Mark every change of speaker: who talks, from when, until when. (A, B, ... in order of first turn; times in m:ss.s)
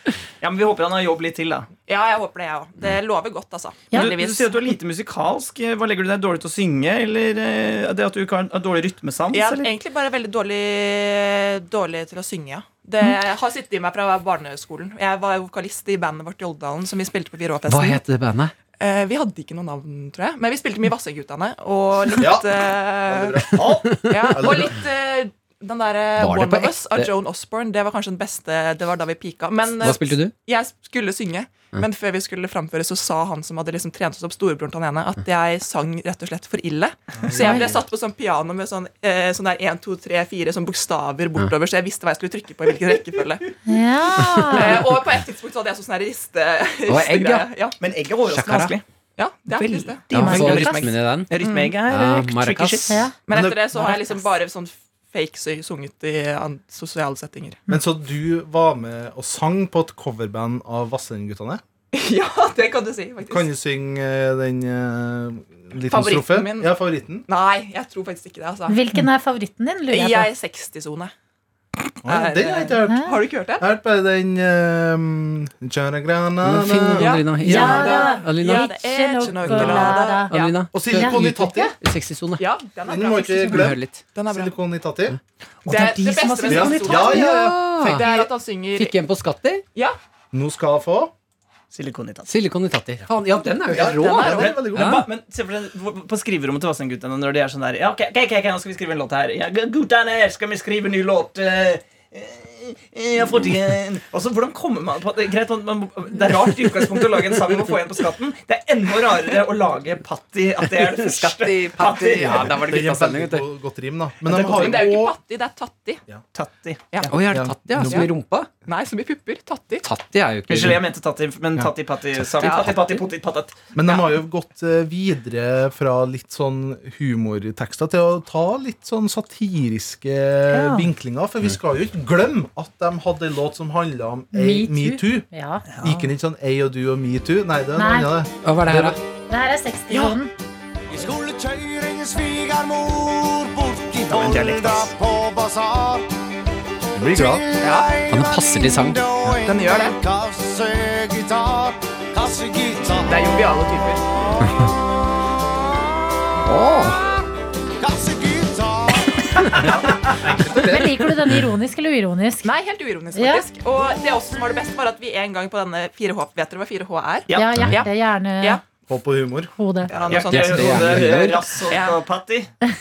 0:00.4-0:01.7 A
0:01.9-0:04.6 B
0:03.9-0:09.7 A
0:09.3-0:18.0 B
0:17.7-0:18.5 C
0:18.8-0:43.5 B
0:22.2-0:24.8 D
0:23.9-0:24.4 C
0:26.2-0:27.1 C
0:29.8-0:30.3 C
0:37.2-0:37.8 D
0:37.4-0:37.6 E
0:43.6-0:44.9 E
0:44.2-0:44.8 C
0:44.5-0:47.8 B
0:46.9-0:47.5 C
0:47.8-0:48.8 A
0:48.3-0:48.7 C
0:49.2-0:51.8 B
0:49.5-0:53.1 A
0:50.1-0:51.3 C
0:50.1-0:50.7 E
0:51.8-0:53.1 C
0:52.9-0:53.2 E
0:53.3-0:57.6 B
0:53.3-0:54.0 D
0:57.7-1:01.6 D
1:01.9-1:03.5 B
1:03.3-1:07.2 D
1:05.8-1:06.7 B
1:07.3-1:08.8 B
1:08.7-1:10.3 E
1:09.9-1:11.1 B
1:12.0-1:13.7 B
1:12.0-1:17.2 D
1:12.8-1:13.1 E
1:16.4-1:18.7 C
1:17.0-1:20.6 B
1:17.4-1:21.7 E
1:19.4-1:22.4 C
1:20.7-1:21.7 D
1:22.4-1:24.5 B
1:22.8-1:25.2 D
1:23.5-1:24.0 C
1:25.6-1:28.9 B
1:25.7-1:27.1 A
1:26.4-1:28.3 D
1:26.5-1:28.0 C
1:28.7-1:29.6 C
1:30.3-1:31.1 D
1:31.7-1:32.3 A
1:32.3-1:35.1 C
1:33.7-1:35.0 D
1:33.8-1:34.6 B
1:34.2-1:52.6 A
1:50.8-1:53.4 C
1:52.2-1:55.2 D
1:54.3-1:54.7 A
1:54.3-1:56.0 B
1:56.3-1:57.1 A
1:57.1-1:58.5 C
1:57.3-1:58.1 D
1:57.8-1:58.1 B
1:58.6-1:59.8 B
1:59.8-2:00.8 C
2:00.5-2:03.6 A
2:02.4-2:03.0 B
2:03.7-2:15.3 D
2:03.8-2:04.1 B
2:10.5-2:10.9 E
2:14.3-2:15.9 E
2:15.8-2:19.0 D
2:17.8-2:18.2 E
2:18.4-2:19.0 C
2:19.3-2:20.3 E
2:19.9-2:20.2 B
2:20.9-2:26.1 F
2:24.0-2:24.9 A
2:27.0-2:27.4 C
2:27.1-2:33.3 F
2:27.6-2:27.9 B
2:28.1-2:29.0 C
2:29.4-2:30.0 B
2:33.0-2:34.0 B
2:36.4-2:37.0 C
2:37.8-2:39.2 F
2:39.6-2:40.6 A
2:40.4-2:40.8 D
2:40.6-2:42.5 E
2:42.4-2:48.6 B
2:43.1-2:43.4 E
2:47.3-2:47.8 A
2:47.4-2:48.6 E
2:47.5-2:47.8 C
2:48.9-2:49.5 D
2:49.6-2:49.9 E
2:49.9-2:52.0 B
2:49.9-2:52.5 A
2:50.3-2:51.5 C